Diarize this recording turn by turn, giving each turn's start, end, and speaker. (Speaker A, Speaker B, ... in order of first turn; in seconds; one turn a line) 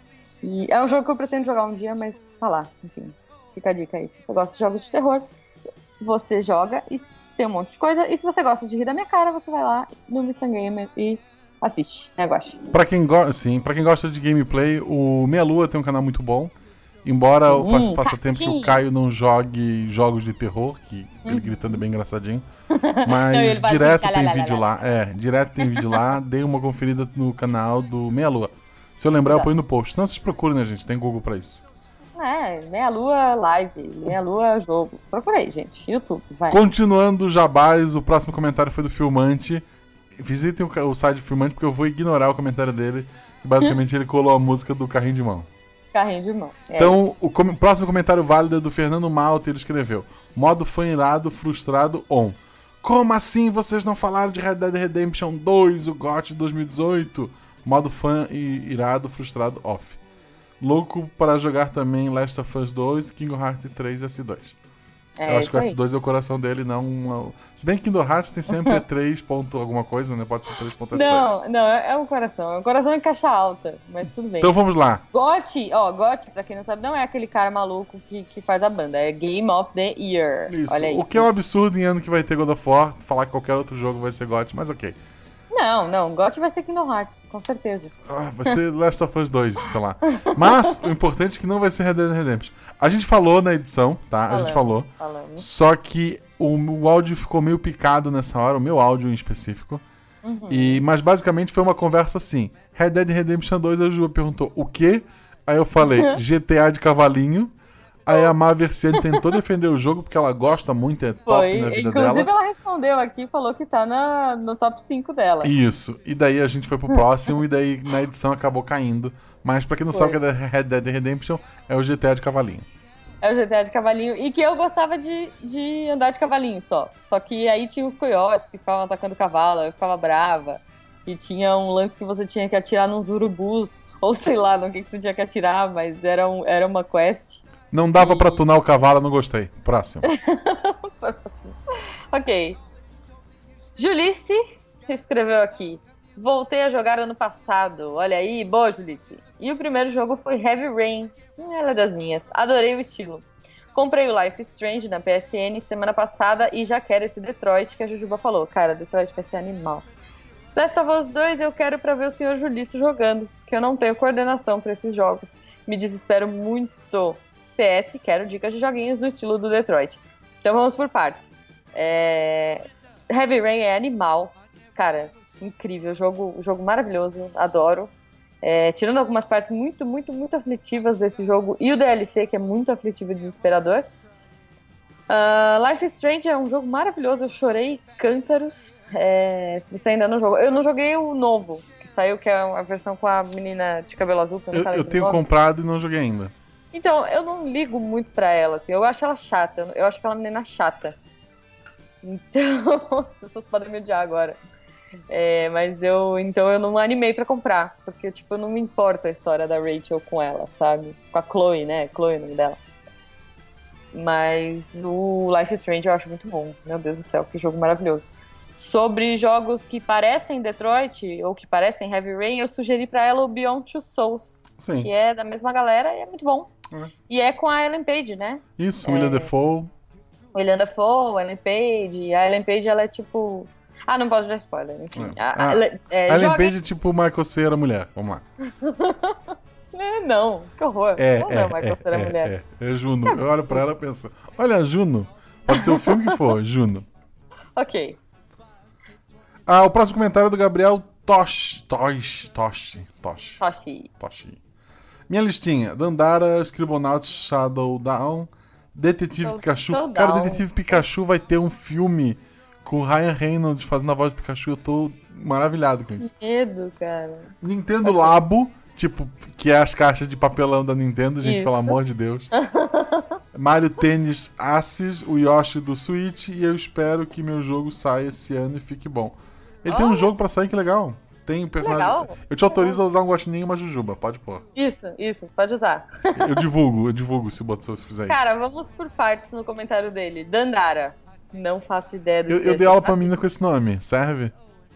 Speaker A: 0.4-5.2
Speaker A: 6.0-12.6
Speaker B: 12.7-16.5
Speaker B: 17.1-22.4
Speaker A: 17.5-18.8
Speaker A: 21.2-21.8
Speaker A: 22.7-24.8
Speaker B: 23.0-31.6
Speaker A: 25.6-26.1
Speaker A: 32.2-36.6
Speaker B: 36.5-39.6
Speaker B: 40.2-45.5
Speaker A: 45.9-47.1
Speaker B: 46.8-60.0
Speaker B: 60.6-64.6
Speaker A: 65.2-65.8
Speaker B: 65.3-71.3
Speaker A: 70.9-74.5
Speaker B: 74.4-75.0
Speaker A: 75.1-81.3
Speaker B: 80.5-85.0
Speaker A: 85.5-87.9
Speaker B: 88.1-99.8
Speaker A: 90.2-90.8
Speaker A: 94.3-95.5
Speaker A: 100.2-100.8
Speaker B: 100.5-107.5
Speaker A: 105.8-106.2
Speaker B: 108.1-112.3
Speaker A: 109.0-109.3
Speaker A: 111.3-115.5
Speaker B: 115.4-122.7
Speaker A: 119.9-120.2
Speaker A: 123.2-137.4
Speaker B: 137.7-140.1
Speaker A: 138.0-138.4
Speaker A: 140.1-141.6
Speaker A: 142.1-142.6
Speaker A: 143.8-159.9
Speaker A: 160.6-183.8
Speaker A: 185.1-195.2
Speaker B: 194.5-196.3
Speaker A: 196.7-201.0
Speaker A: 202.0-204.4
Speaker A: 205.1-212.6
Speaker A: 213.9-226.5
Speaker B: 224.6-224.9
Speaker A: 227.1-229.3
Speaker B: 228.6-229.7
Speaker A: 230.3-236.5
Speaker B: 234.9-238.2
Speaker A: 238.5-242.3
Speaker B: 241.0-246.9
Speaker A: 243.1-243.6
Speaker A: 245.6-246.2
Speaker A: 247.6-248.0
Speaker B: 249.5-253.4
Speaker A: 253.4-253.9
Speaker B: 254.0-254.4
Speaker B: 255.1-266.1
Speaker A: 259.2-260.8
Speaker A: 266.0-267.3
Speaker B: 267.4-272.3
Speaker A: 267.8-268.2
Speaker A: 271.2-271.8
Speaker A: 272.3-273.1
Speaker B: 273.3-284.4
Speaker A: 279.7-280.1
Speaker A: 281.6-282.8
Speaker A: 284.6-286.4
Speaker B: 286.2-288.3
Speaker A: 288.1-293.2
Speaker B: 292.3-294.3